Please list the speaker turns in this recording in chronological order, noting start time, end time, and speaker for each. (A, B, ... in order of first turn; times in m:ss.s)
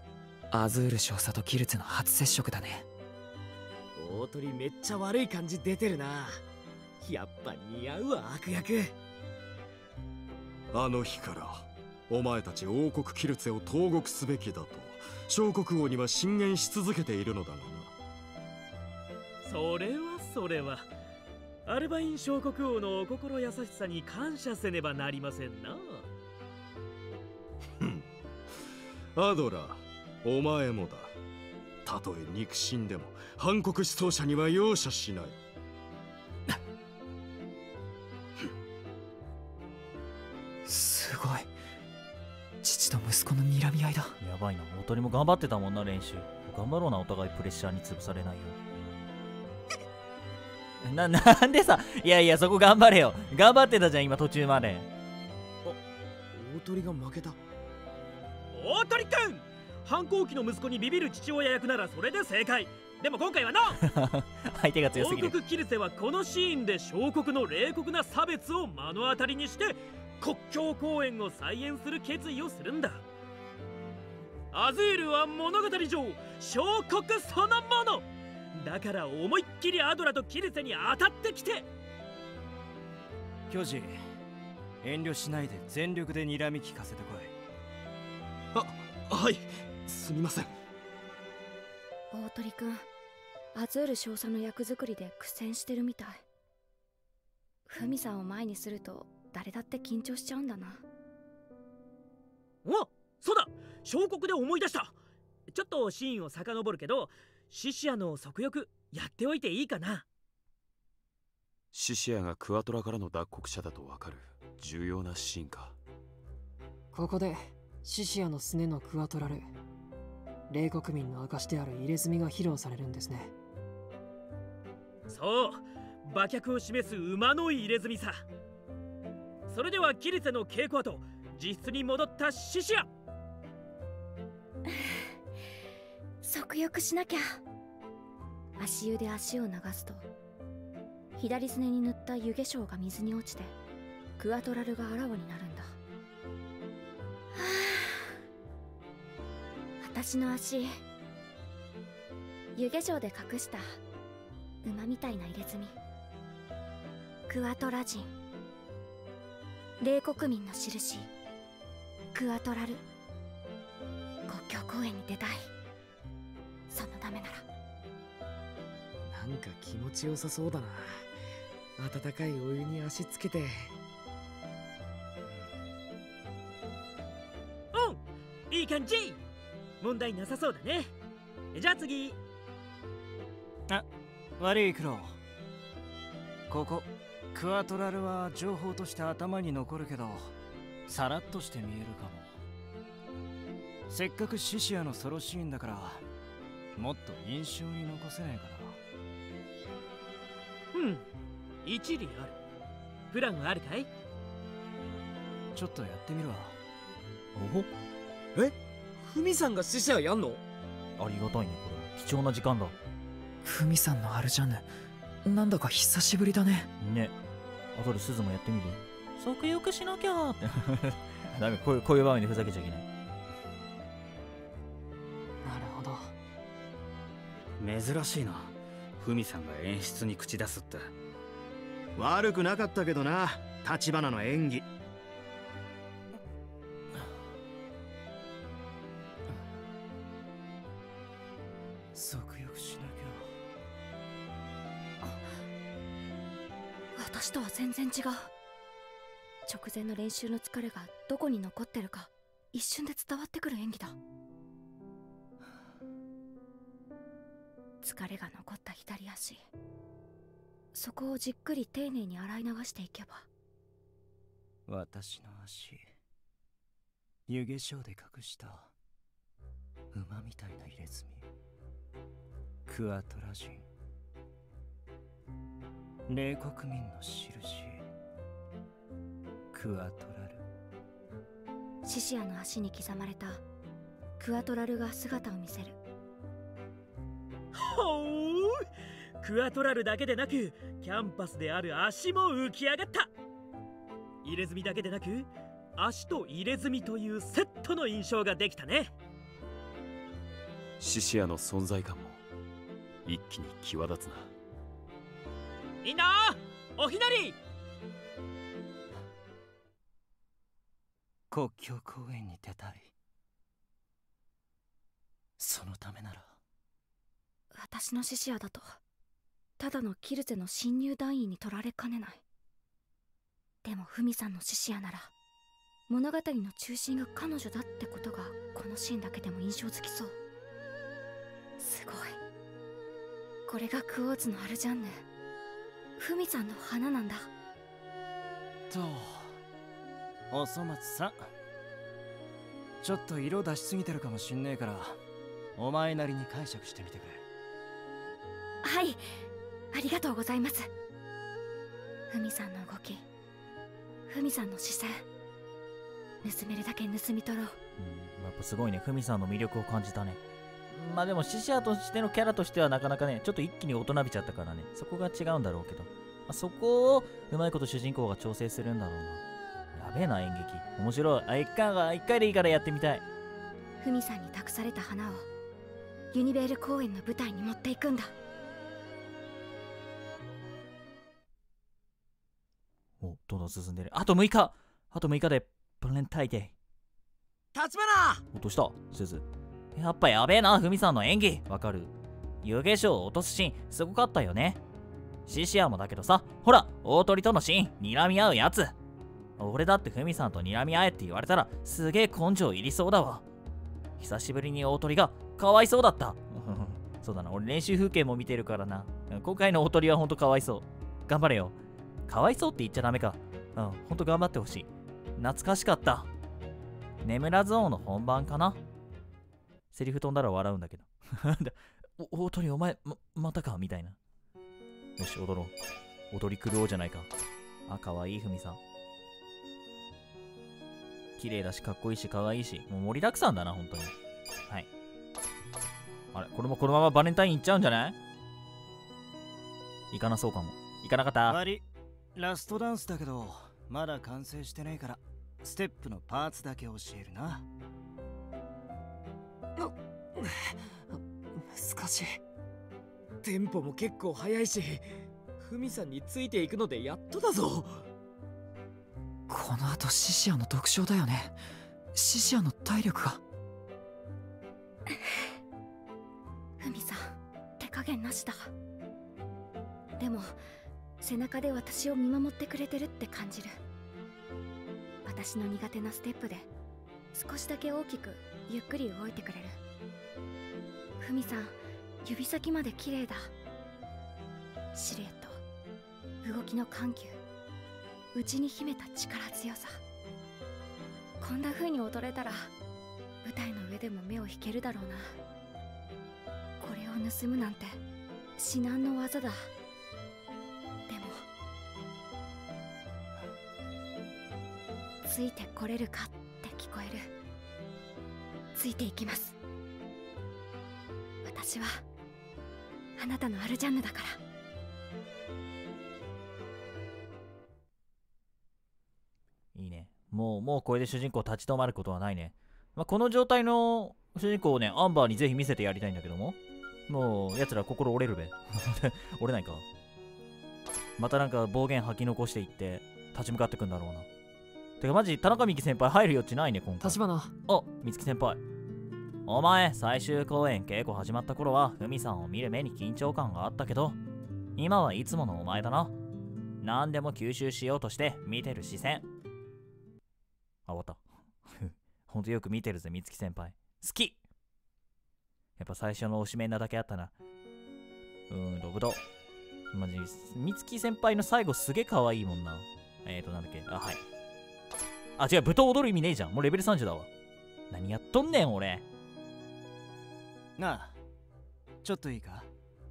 0:00.5-0:02.9 A
0:04.0-0:06.4 B
0:07.0-0:09.0 B
0:10.7-0:17.9 C
0:19.4-0:20.9 D
0:21.7-0:26.1 D
0:27.8-0:28.1 C
0:29.2-0:31.2 C
0:31.8-0:35.4 C
0:40.6-0:41.5 A
0:42.6-0:44.1 A
0:44.2-0:48.6 E
0:50.8-0:54.9 E
0:56.3-0:57.4 B
0:58.5-1:03.8 D
1:03.8-1:05.3 E
1:04.9-1:13.0 D
1:14.5-1:21.7 D
1:23.5-1:24.0 F
1:24.8-1:27.3 F
1:28.5-1:30.5 C
1:32.1-1:32.9 G
1:33.5-1:36.2 G
1:37.7-1:40.8 G
1:42.6-1:45.0 D
1:45.5-1:50.1 D
1:51.7-1:55.8 H
1:56.9-1:59.5 I
2:00.5-2:03.3 I
2:05.1-2:08.2 D
2:09.5-2:12.9 D
2:14.7-2:15.0 G
2:16.2-2:17.4 G
2:18.6-2:20.0 G
2:21.2-2:23.5 G
2:24.2-2:25.8 G
2:27.3-2:28.2 G
2:29.8-2:30.8 G
2:32.6-2:33.8 G
2:34.6-2:35.8 G
2:37.3-2:38.1 G
2:39.8-2:41.1 G
2:42.1-2:42.8 G
2:44.3-2:45.5 G
2:46.7-2:47.5 G
2:49.1-2:51.1 B
2:51.8-2:53.7 B
2:57.7-2:59.2 D
2:59.8-3:00.9 D
3:01.5-3:02.2 D
3:04.4-3:05.2 F
3:06.5-3:10.3 F
3:10.9-3:12.4 F
3:13.9-3:16.0 F
3:16.8-3:18.8 F
3:20.7-3:21.1 D
3:21.6-3:22.4 D
3:23.1-3:23.9 D
3:25.5-3:26.6 F
3:27.4-3:27.7 E
3:28.4-3:30.4 B
3:31.0-3:32.8 E
3:33.4-3:34.7 A
3:35.2-3:36.7 A
3:36.8-3:37.1 E
3:37.8-3:42.9 E
3:45.4-3:46.2 I
3:47.6-3:50.9 J
3:52.0-3:54.7 J
4:01.9-4:03.4 F
4:05.0-4:05.4 G
4:07.0-4:08.3 G
4:09.5-4:14.0 G
4:17.8-4:19.5 G
4:20.7-4:23.3 G
4:24.7-4:25.8 F
4:27.3-4:28.7 F
4:29.9-4:31.3 F
4:32.7-4:33.7 F
4:36.1-4:37.8 F
4:39.5-4:40.4 F
4:41.8-4:43.4 G
4:44.2-4:45.8 G
4:47.5-4:48.6 D
4:49.2-4:53.1 D
4:54.2-4:58.9 D
5:00.8-5:02.2 H
5:03.0-5:04.3 H
5:05.8-5:07.4 D
5:11.3-5:12.9 F
5:15.4-5:16.4 F
5:17.5-5:18.8 G
5:19.6-5:22.2 G
5:23.6-5:25.1 G
5:25.9-5:30.2 G
5:31.6-5:32.2 G
5:33.5-5:35.1 G
5:36.0-5:37.3 G
5:38.7-5:39.4 F
5:40.3-5:41.3 F
5:42.8-5:45.0 F
5:45.6-5:47.2 F
5:48.6-5:49.0 G
5:49.7-5:50.7 G
5:52.1-5:53.1 G
5:54.1-5:55.1 G
5:56.2-5:57.6 G
5:57.8-6:09.2 E
6:09.8-6:13.0 E
6:13.8-6:15.3 G
6:16.1-6:18.1 G
6:23.0-6:26.5 E
6:27.6-6:28.2 B
6:28.3-6:34.6 E
6:35.3-6:38.8 E
6:39.4-6:43.2 E
6:44.0-6:51.6 E
6:52.1-6:56.1 E
6:57.0-6:58.6 E
6:59.7-7:04.0 E
7:05.0-7:05.5 E
7:06.1-7:07.1 E
7:07.7-7:08.6 E
7:11.2-7:13.9 E
7:16.1-7:18.0 E
7:19.9-7:21.4 E
7:21.3-7:21.6 F
7:22.2-7:27.4 F
7:29.6-7:32.2 I
7:33.2-7:37.8 B
7:39.3-7:41.4 A
7:41.9-7:43.2 A
7:46.6-7:48.5 G
7:50.0-7:50.4 G
7:51.0-7:53.6 G
7:55.0-7:56.5 G
7:57.1-7:59.6 G
8:01.0-8:03.3 G
8:04.7-8:05.4 G
8:06.2-8:07.2 G
8:08.1-8:09.8 G
8:11.2-8:12.5 G
8:13.2-8:15.2 G
8:16.6-8:17.8 G
8:18.4-8:19.5 G
8:20.9-8:21.2 G
8:25.0-8:27.1 G
8:28.5-8:29.4 G
8:31.2-8:31.8 G
8:33.0-8:34.2 G
8:39.6-8:46.4 E
8:46.9-8:49.6 E
8:51.0-8:54.1 E
8:54.8-8:58.4 E
8:56.8-8:57.3 I
8:59.3-9:04.0 E
9:04.6-9:05.9 E
9:06.6-9:09.1 E
9:10.7-9:14.2 E
9:15.6-9:17.1 E
9:18.3-9:19.0 E
9:19.7-9:24.0 E
9:25.2-9:27.1 E
9:27.7-9:28.8 E
9:30.6-9:31.0 F
9:31.8-9:32.5 F